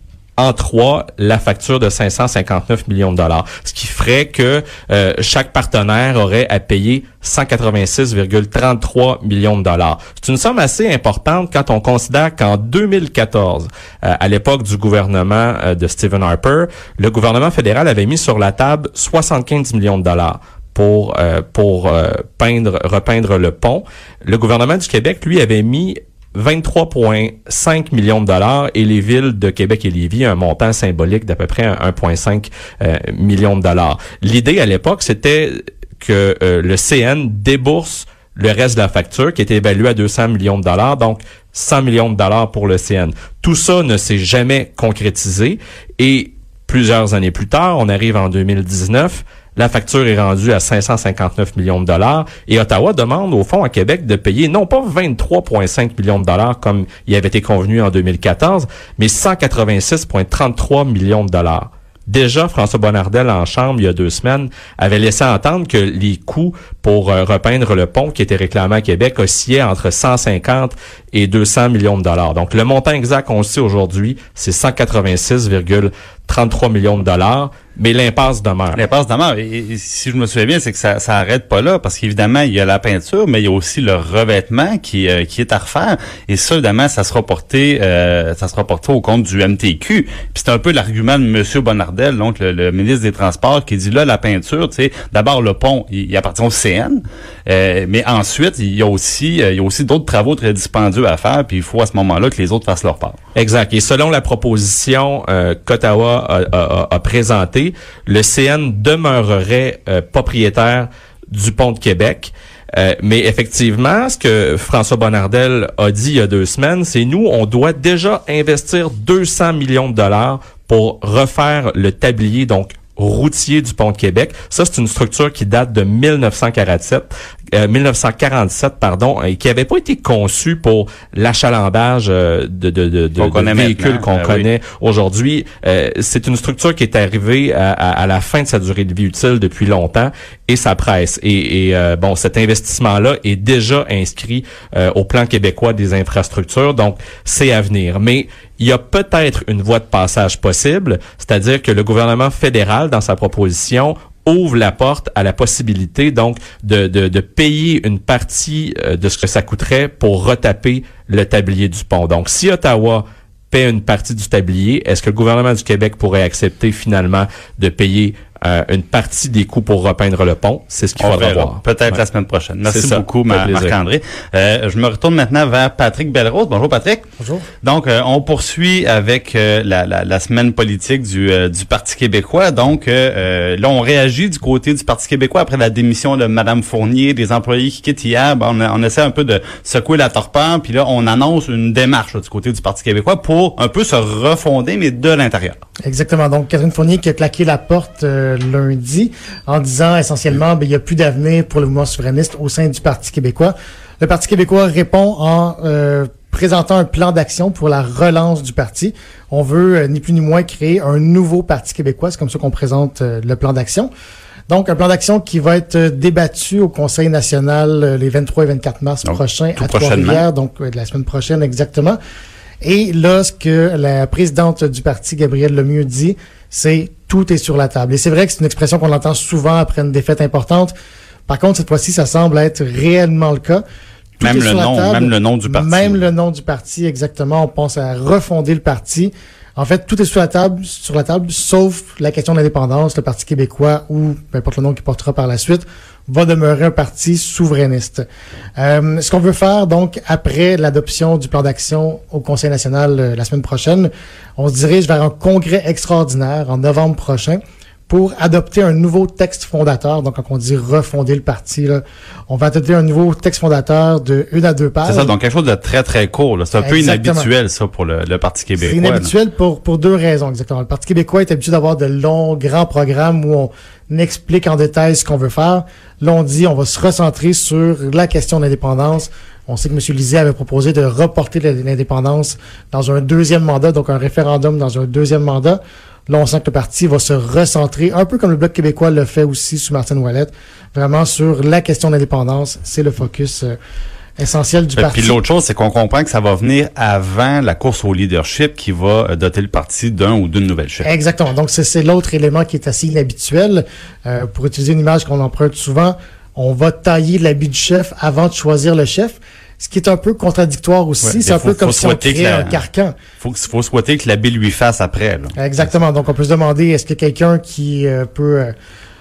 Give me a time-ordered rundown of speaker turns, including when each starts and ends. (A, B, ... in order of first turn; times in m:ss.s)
0:00.4-1:18.8 A
1:18.7-1:43.2 B
1:43.3-2:52.0 A
2:13.2-2:14.5 B
2:51.0-2:57.0 B
2:52.7-2:53.8 A
2:57.2-2:57.4 C
2:57.6-3:15.6 B
3:15.8-3:33.9 C
3:34.5-3:42.0 C
3:39.0-3:40.3 B
3:42.6-3:50.7 C
3:51.3-3:53.6 C
3:54.2-4:08.0 C
3:54.2-3:56.0 B
4:08.6-4:25.1 C
4:24.8-4:29.1 B
4:26.6-4:27.3 C
4:28.6-4:53.5 C
4:54.2-4:55.2 C
4:54.8-5:00.9 B
5:00.8-5:12.9 C
5:11.0-5:12.6 B
5:13.2-5:15.7 B
5:15.4-5:18.5 C